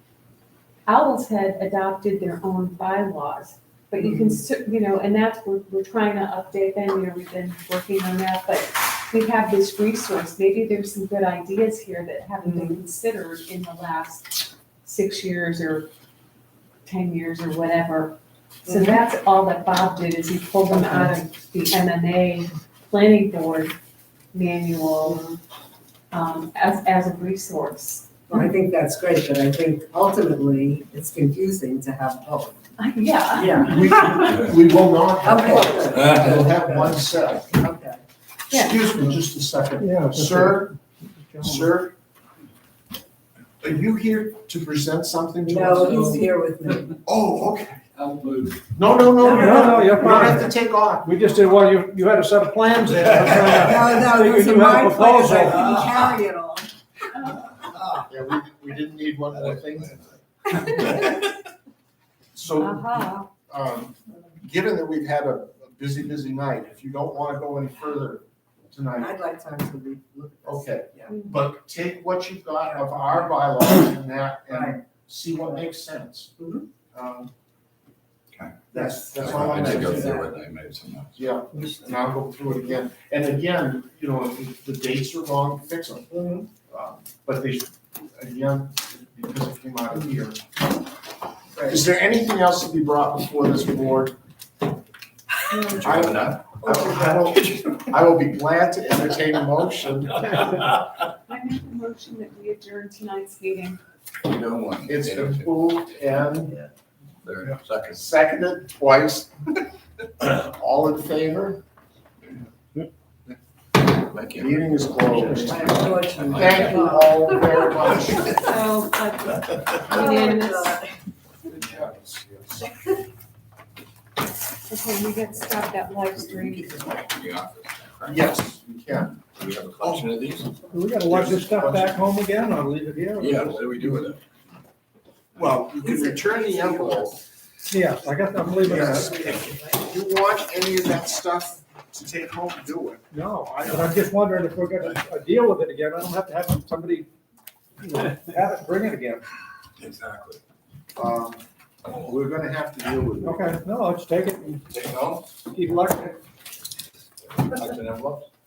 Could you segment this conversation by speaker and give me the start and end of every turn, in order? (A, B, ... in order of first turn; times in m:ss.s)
0:00.9-0:15.9 A
0:04.0-0:04.4 B
0:12.4-0:12.8 B
0:16.8-0:23.8 A
0:18.7-0:19.0 B
0:20.7-0:21.2 B
0:24.3-0:25.2 A
0:25.0-0:25.4 B
0:26.1-0:28.5 A
0:28.3-0:32.6 B
0:32.8-0:34.4 A
0:33.3-0:34.3 B
0:33.6-0:37.5 C
0:35.2-0:38.0 B
0:38.5-0:38.8 A
0:38.5-0:40.7 C
0:39.8-0:40.7 D
0:41.3-0:41.7 D
0:41.4-0:41.9 C
0:43.6-0:46.3 C
0:45.5-0:47.0 B
0:47.0-0:47.8 C
0:47.9-0:48.7 E
0:48.7-0:51.2 C
0:49.2-0:50.0 B
0:49.2-0:50.5 D
0:51.0-0:55.7 D
0:53.5-0:56.7 B
0:57.7-0:58.0 E
0:58.0-1:00.2 C
0:59.3-1:00.1 E
1:00.7-1:01.2 E
1:02.3-1:09.2 C
1:02.6-1:03.3 A
1:09.0-1:11.2 B
1:10.4-1:16.3 C
1:12.7-1:13.3 B
1:14.5-1:14.8 B
1:16.4-1:16.7 B
1:16.9-1:17.3 C
1:18.3-1:18.6 E
1:18.7-1:20.2 C
1:18.7-1:20.4 B
1:19.2-1:21.3 E
1:21.2-1:30.5 C
1:26.1-1:26.5 B
1:31.7-1:34.2 C
1:35.5-1:35.8 B
1:35.6-1:37.6 E
1:35.8-1:40.7 C
1:41.3-1:43.8 A
1:44.2-1:45.5 E
1:44.9-1:46.6 C
1:47.2-1:48.1 E
1:47.9-1:49.3 C
1:50.2-1:51.6 C
1:53.3-1:56.8 E
1:54.4-1:58.5 C
1:55.3-1:58.5 B
1:58.3-2:00.8 A
1:59.8-2:00.8 B
2:01.4-2:02.7 C
2:02.6-2:03.0 B
2:04.7-2:06.9 A
2:06.2-2:08.3 E
2:08.0-2:09.2 C
2:09.2-2:10.5 E
2:09.8-2:10.1 C
2:10.7-2:14.1 D
2:11.0-2:12.0 C
2:13.2-2:14.2 E
2:15.4-2:17.2 C
2:15.4-2:17.1 E
2:17.7-2:19.2 D
2:18.6-2:23.0 C
2:23.1-2:27.1 D
2:27.8-2:29.2 D
2:29.8-2:30.4 E
2:31.0-2:33.5 C
2:33.2-2:34.6 D
2:34.6-2:35.4 E
2:35.5-2:36.2 D
2:37.3-2:38.3 E